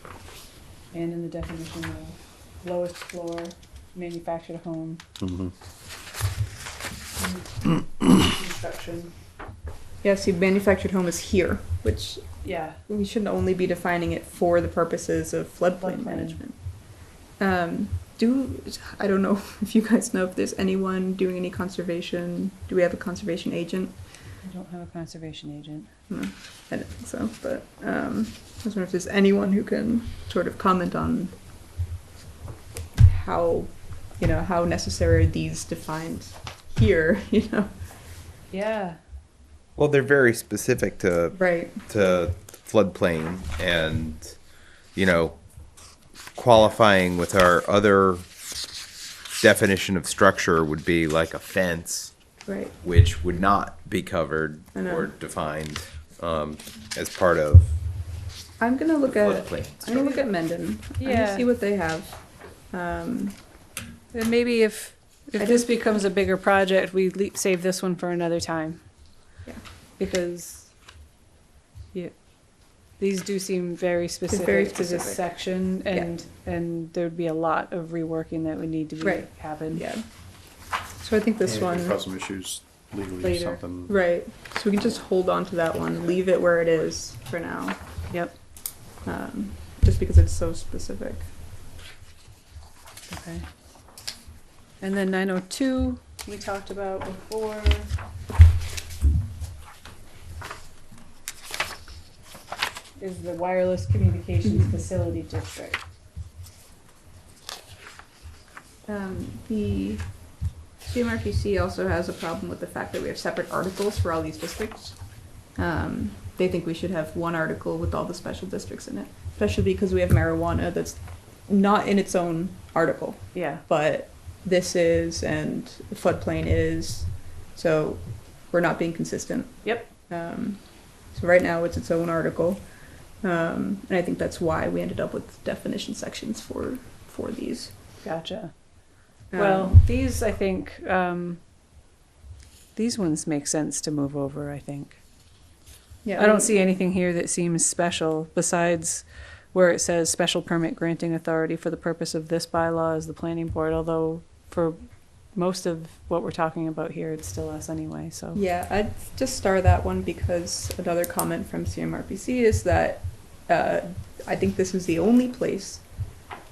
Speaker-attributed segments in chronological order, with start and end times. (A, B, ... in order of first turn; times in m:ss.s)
0:00.9-0:05.0 A
0:05.2-0:05.5 B
0:07.2-0:09.1 A
0:10.0-0:16.6 C
0:12.4-0:12.8 A
0:15.8-0:16.4 A
0:17.4-0:24.0 C
0:24.4-0:25.9 A
0:26.1-0:31.3 C
0:33.0-0:37.7 C
0:38.5-0:39.0 A
0:39.8-0:44.4 D
0:41.4-0:41.8 C
0:44.9-0:45.4 D
0:46.3-0:48.2 D
0:49.4-0:52.1 D
0:52.4-0:52.7 C
0:52.8-0:57.7 D
0:54.7-0:55.1 C
0:58.6-1:03.4 C
0:59.1-1:00.0 D
1:01.0-1:01.4 A
1:04.1-1:08.8 A
1:05.4-1:05.7 C
1:10.0-1:10.7 A
1:13.0-1:19.8 A
1:14.3-1:16.1 C
1:19.0-1:20.0 C
1:21.0-1:22.0 C
1:21.4-1:23.9 B
1:23.2-1:23.6 A
1:23.9-1:27.8 C
1:28.1-1:28.4 A
1:29.0-1:31.3 C
1:33.1-1:33.4 A
1:34.8-1:37.9 A
1:43.0-1:45.8 A
1:44.5-1:44.7 C
1:48.9-1:50.2 C
1:50.8-1:55.0 C
1:55.5-2:12.7 C
2:03.3-2:03.6 A
2:13.2-2:17.7 C
2:18.0-2:18.5 A
2:19.3-2:19.8 C
2:19.3-2:21.4 A
2:22.7-2:25.0 A
2:26.0-2:26.6 C
2:26.2-2:38.4 A
2:38.3-2:46.0 C